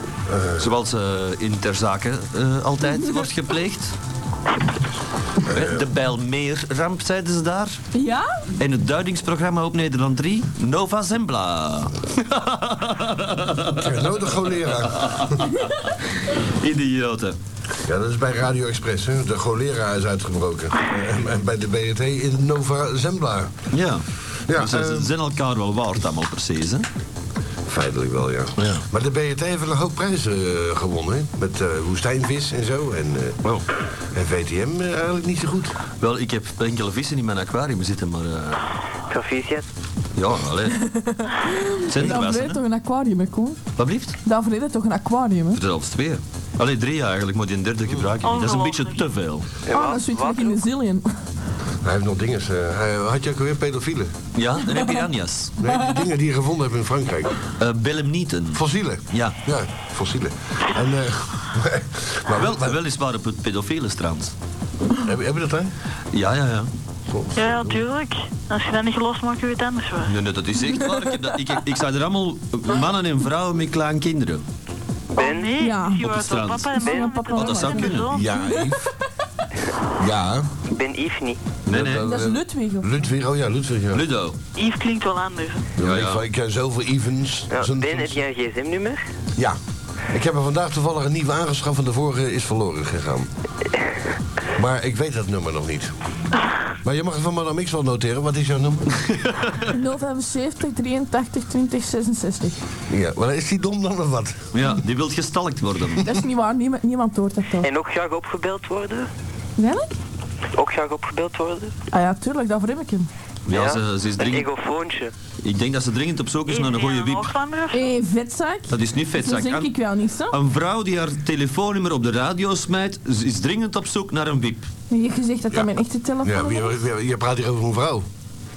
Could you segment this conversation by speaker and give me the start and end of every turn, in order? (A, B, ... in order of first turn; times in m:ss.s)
0:00.3-0:00.7 A
0:00.6-0:03.9 B
0:05.4-0:05.8 A
0:05.5-0:07.8 B
0:07.9-0:08.3 C
0:08.6-0:14.1 B
0:13.8-0:15.4 A
0:14.6-0:17.4 B
0:17.8-0:23.5 A
0:23.7-0:26.9 B
0:24.5-0:25.1 A
0:27.6-0:33.5 A
0:28.6-0:28.8 B
0:34.1-0:35.8 A
0:36.0-0:38.6 B
0:39.1-0:39.7 D
0:40.1-0:40.9 B
0:40.8-0:43.6 C
0:41.9-0:42.6 B
0:43.8-0:44.2 B
0:44.2-0:45.6 C
0:45.5-0:49.5 B
0:48.2-0:49.0 E
0:49.6-0:50.6 D
0:49.7-0:51.1 C
0:51.8-0:54.1 A
0:54.3-0:55.5 B
0:55.6-0:57.4 A
0:55.6-0:55.9 C
0:57.6-0:59.4 B
0:58.5-1:02.8 A
1:02.3-1:04.3 B
1:05.0-1:05.7 A
1:06.1-1:06.7 B
1:07.1-1:07.8 A
1:07.3-1:10.2 E
1:10.1-1:14.4 B
1:15.1-1:15.5 D
1:15.2-1:18.4 E
1:15.6-1:16.0 C
1:16.0-1:16.8 B
1:16.8-1:18.8 C
1:17.3-1:18.1 B
1:18.1-1:18.9 A
1:20.0-1:20.5 A
1:20.6-1:21.4 D
1:21.6-1:24.0 A
1:21.7-1:22.0 B
1:22.0-1:22.9 C
1:23.9-1:24.4 B
1:24.6-1:25.7 E
1:25.8-1:28.2 A
1:25.8-1:26.2 B
1:27.5-1:29.0 D
1:30.1-1:33.3 A
1:34.6-1:35.9 A
1:36.8-1:39.0 A
1:39.1-1:39.6 B
1:39.7-1:42.6 C
1:42.9-1:44.4 A
1:44.5-1:46.0 B
1:46.0-1:47.7 C
1:47.6-1:49.1 D
1:49.6-1:49.9 C
1:50.5-1:51.7 D
1:51.9-1:53.1 C
1:53.5-1:54.5 B
1:53.5-1:55.1 D
1:55.4-1:57.3 B
1:56.5-1:57.9 E
1:57.7-2:00.4 C
1:58.7-1:59.7 B
2:00.3-2:04.7 B
2:04.9-2:06.8 C
2:06.2-2:08.0 A